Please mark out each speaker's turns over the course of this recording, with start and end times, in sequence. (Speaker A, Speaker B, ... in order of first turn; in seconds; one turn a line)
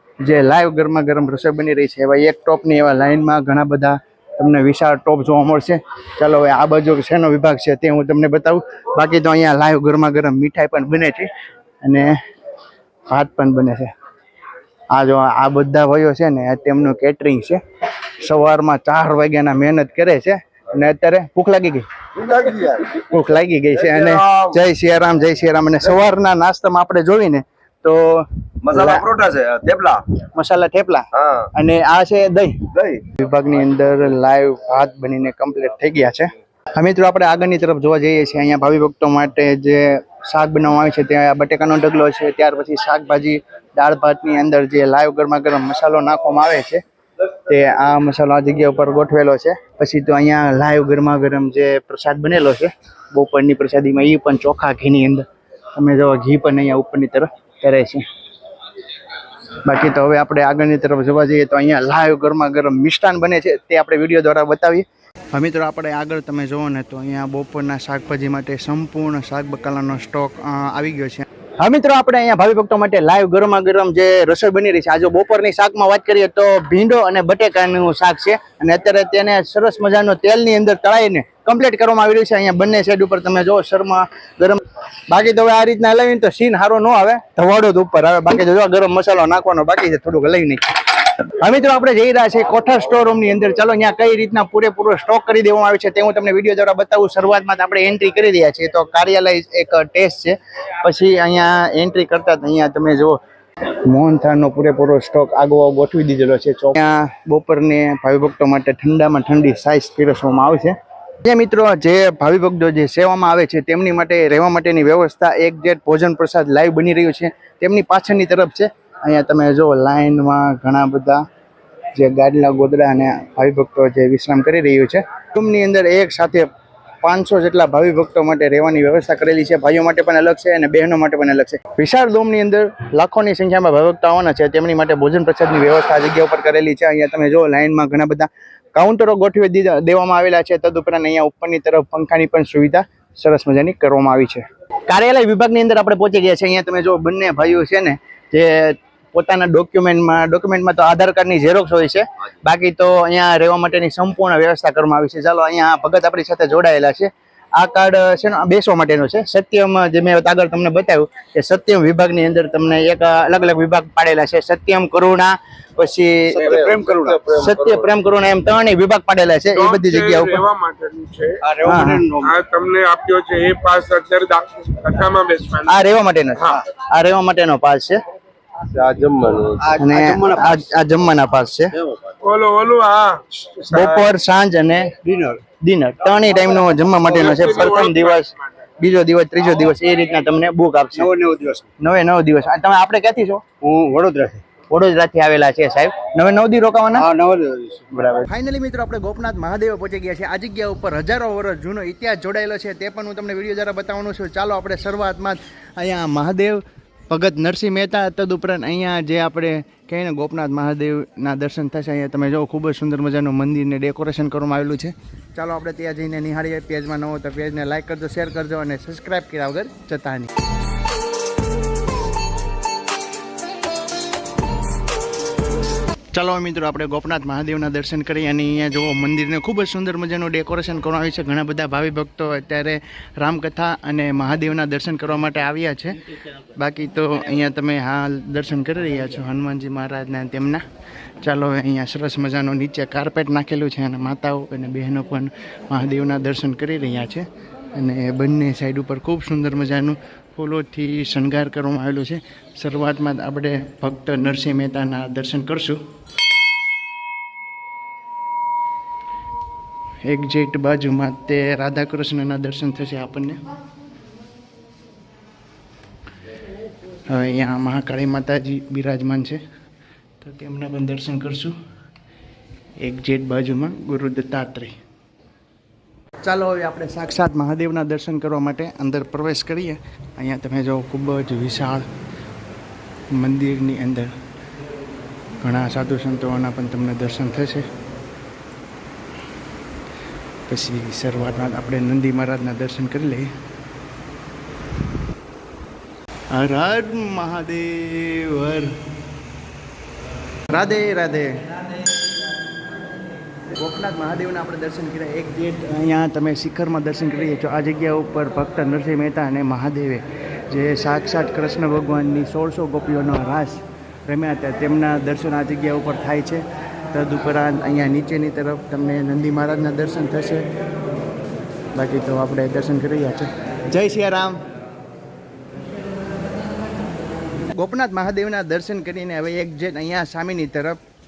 Speaker A: 0.2-11.3
Speaker A: 11.8-12.2
Speaker A: 13.1-13.9
Speaker A: 14.9-17.6
Speaker A: 18.2-22.4
Speaker B: 22.4-22.8
Speaker A: 22.9-29.1
Speaker B: 28.7-30.1
Speaker A: 30.2-46.8
Speaker A: 47.5-58.0
Speaker A: 59.6-103.2
Speaker A: 103.9-121.2
Speaker A: 121.9-126.5
Speaker A: 127.0-170.4
Speaker B: 166.3-167.9
Speaker C: 169.5-171.4
Speaker B: 171.4-172.3
Speaker A: 171.6-172.1
Speaker C: 172.2-175.8
Speaker A: 175.7-178.0
Speaker B: 178.7-180.6
Speaker A: 179.8-181.7
Speaker C: 182.2-184.1
Speaker A: 183.6-185.0
Speaker B: 185.1-185.4
Speaker A: 185.6-191.1
Speaker C: 187.1-188.3
Speaker B: 190.9-191.7
Speaker A: 191.8-193.4
Speaker B: 193.6-194.4
Speaker A: 194.7-197.1
Speaker B: 196.9-197.8
Speaker A: 198.0-220.3
Speaker A: 226.1-240.6
Speaker A: 241.2-255.8
Speaker A: 260.0-263.4
Speaker A: 267.1-269.4
Speaker A: 270.2-271.5
Speaker A: 272.8-274.8
Speaker A: 276.2-281.9
Speaker A: 283.1-284.1
Speaker A: 285.4-287.7
Speaker A: 290.5-293.3
Speaker A: 296.3-298.8
Speaker A: 300.5-301.6
Speaker A: 303.5-320.5
Speaker A: 321.8-324.4
Speaker A: 327.5-330.8